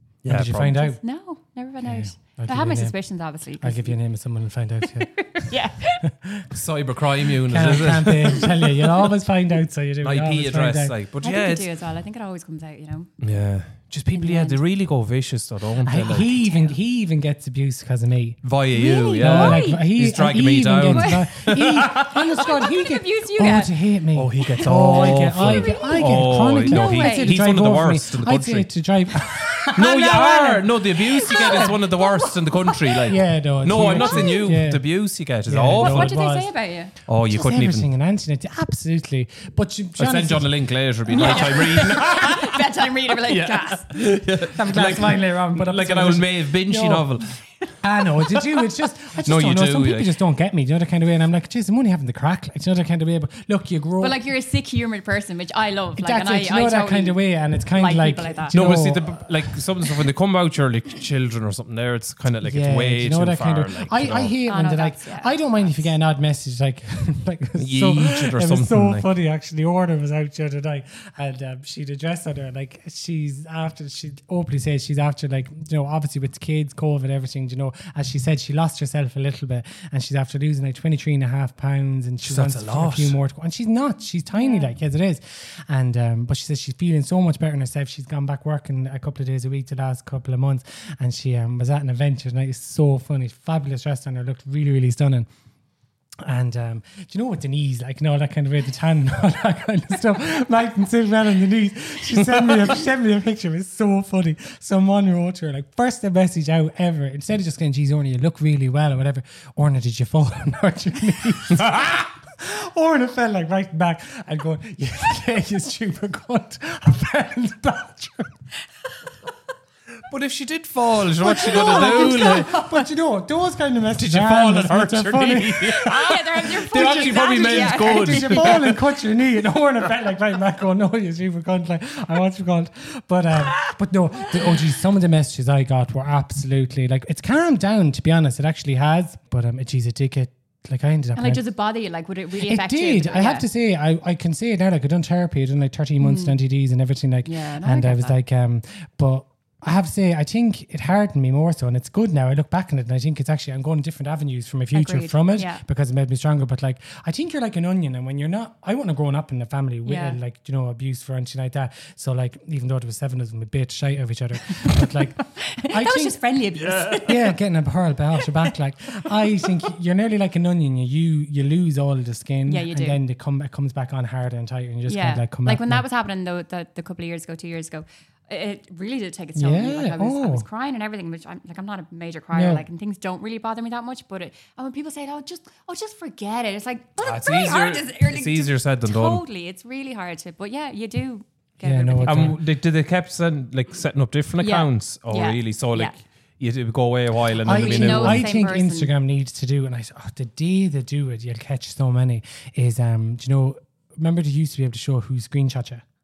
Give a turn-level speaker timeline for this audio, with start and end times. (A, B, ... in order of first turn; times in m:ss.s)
0:00.2-0:00.9 A
0:00.2-0:01.0 B
0:01.0-0:04.0 C
0:01.8-0:03.0 B
0:03.6-0:05.5 B
0:05.2-0:06.0 C
0:06.0-0:06.5 B
0:06.5-0:08.6 A
0:07.4-0:10.9 B
0:10.0-0:11.6 A
0:11.2-0:13.1 C
0:13.2-0:16.3 A
0:14.1-0:14.6 C
0:15.8-0:18.4 B
0:16.1-0:16.7 C
0:18.4-0:22.2 A
0:18.7-0:19.9 C
0:19.1-0:31.8 B
0:20.9-0:23.7 C
0:24.2-0:28.7 A
0:24.6-0:26.1 C
0:26.6-0:27.3 C
0:29.7-0:30.0 C
0:29.7-0:36.1 A
0:31.0-0:33.1 C
0:33.0-0:34.8 B
0:33.9-0:34.4 C
0:35.4-0:36.5 B
0:35.8-0:36.9 C
0:37.1-0:37.9 A
0:37.3-0:40.5 B
0:40.0-0:47.3 A
0:41.1-0:43.8 C
0:41.1-0:41.9 B
0:44.5-0:47.2 B
0:47.8-0:54.2 B
0:49.2-0:50.1 A
0:54.0-0:57.2 C
0:56.0-0:59.3 B
0:57.7-0:58.6 C
0:58.5-1:04.3 A
1:02.4-1:35.3 B
1:04.5-1:05.9 C
1:07.6-1:09.1 A
1:22.2-1:23.2 A
1:24.3-1:24.7 C
1:36.2-1:58.4 B
2:00.1-2:02.6 A
2:01.2-2:21.4 B
2:01.4-2:02.5 C
2:04.0-2:08.8 A
2:05.8-2:08.7 C
2:21.1-2:23.4 C
2:22.4-2:46.2 B
2:26.0-2:26.4 C
2:27.2-2:28.2 C
2:34.7-2:35.6 C
2:39.8-2:40.2 C
2:44.5-2:47.2 C
2:46.6-2:47.0 A
2:47.0-2:55.8 B
2:52.5-2:53.0 C
2:54.9-3:12.4 C
2:59.4-3:00.4 B
3:02.3-3:02.6 B
3:07.0-3:09.2 A
3:11.6-3:12.4 B
3:12.0-3:18.2 A
3:14.4-3:15.9 C
3:17.4-3:25.8 B
3:17.5-3:18.9 C